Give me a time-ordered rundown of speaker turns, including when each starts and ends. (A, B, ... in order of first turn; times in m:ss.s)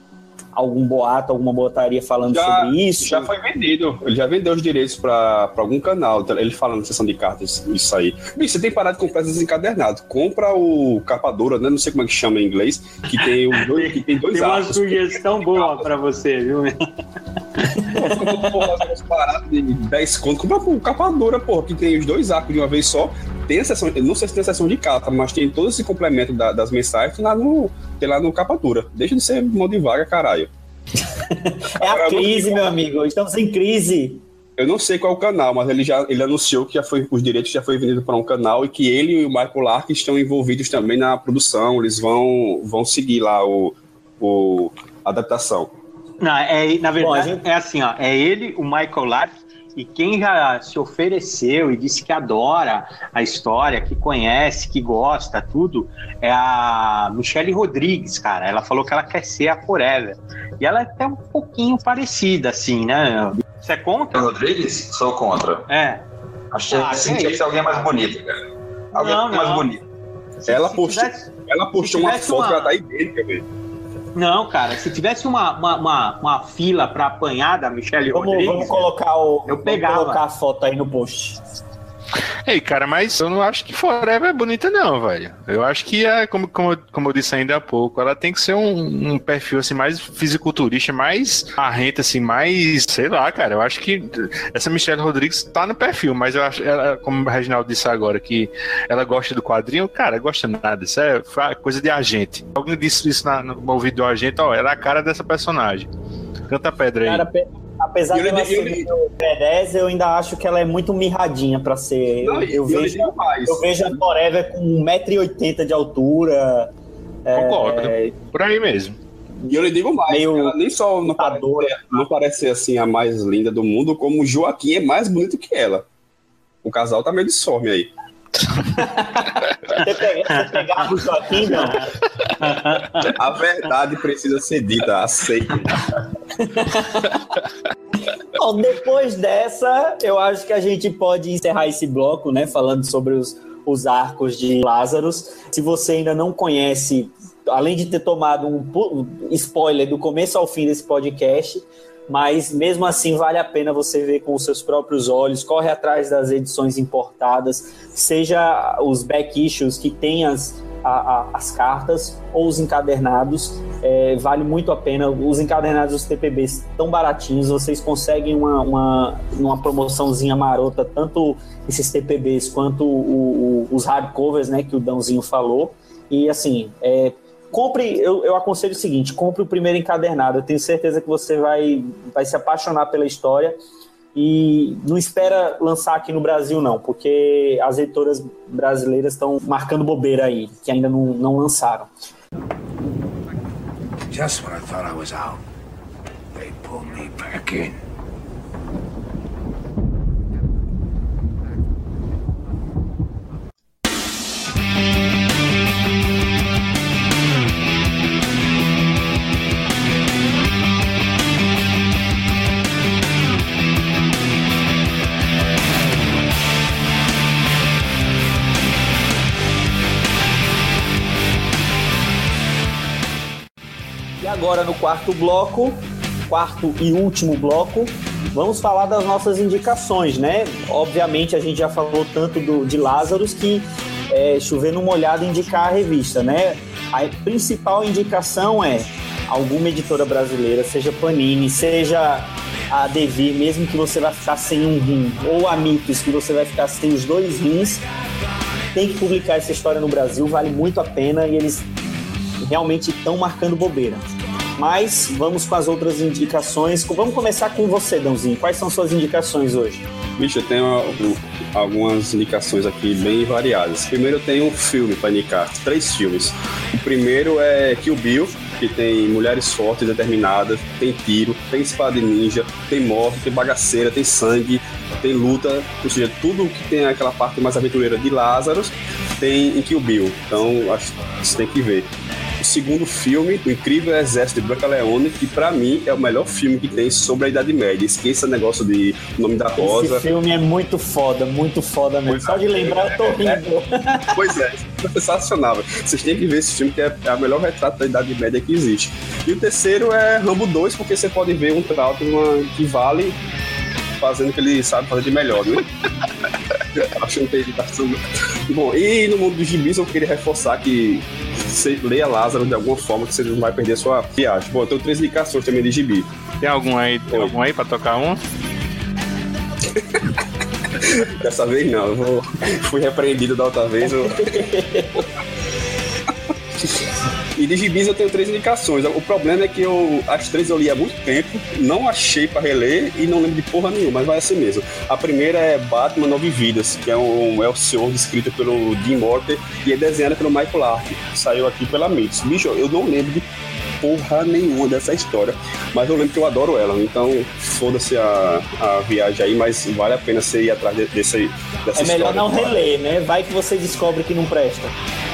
0:00.6-0:03.3 A
0:02.3-0:15.9 B
0:13.2-0:16.7 C
0:17.7-0:18.7 C
0:17.9-0:30.5 B
0:31.3-0:34.2 A
0:31.8-0:32.8 B
0:34.6-0:45.7 B
0:46.2-1:04.2 C
0:47.0-0:47.4 A
1:04.1-1:05.7 D
1:05.7-1:06.0 C
1:06.5-1:08.4 D
1:06.6-1:08.0 C
1:08.9-1:09.8 D
1:08.9-1:09.7 C
1:10.4-1:12.8 C
1:10.4-1:13.4 B
1:14.2-1:18.9 C
1:18.1-1:21.4 A
1:19.5-1:20.2 C
1:22.4-1:45.9 E
1:46.5-1:47.2 E
1:47.1-1:56.7 A
1:48.1-1:48.9 B
1:52.2-1:54.0 B
1:57.2-1:58.1 A
1:57.3-1:59.0 E
1:59.5-2:05.8 B
2:00.1-2:00.6 A
2:01.1-2:02.0 A
2:06.6-2:07.9 B
2:08.8-2:11.9 A
2:10.4-2:10.9 C
2:11.5-2:11.8 C
2:12.4-2:13.1 C
2:13.1-2:15.7 B
2:16.4-2:17.2 A
2:18.4-3:03.6 A
3:04.1-3:11.9 A
3:14.1-3:15.4 F
3:16.4-3:17.7 F
3:44.2-4:07.8 A
4:08.7-4:11.7 A
4:12.4-4:14.0 A
4:14.6-4:19.8 A
4:20.2-4:50.1 B
4:49.6-4:54.1 A
4:52.1-4:53.4 B
4:54.1-5:03.2 B
5:04.0-5:05.7 B
5:06.7-5:16.1 B
5:16.4-5:18.2 E
5:20.8-5:24.5 B
5:23.9-5:25.0 A
5:27.4-5:43.3 B
5:43.8-5:52.7 B
5:51.7-5:54.7 A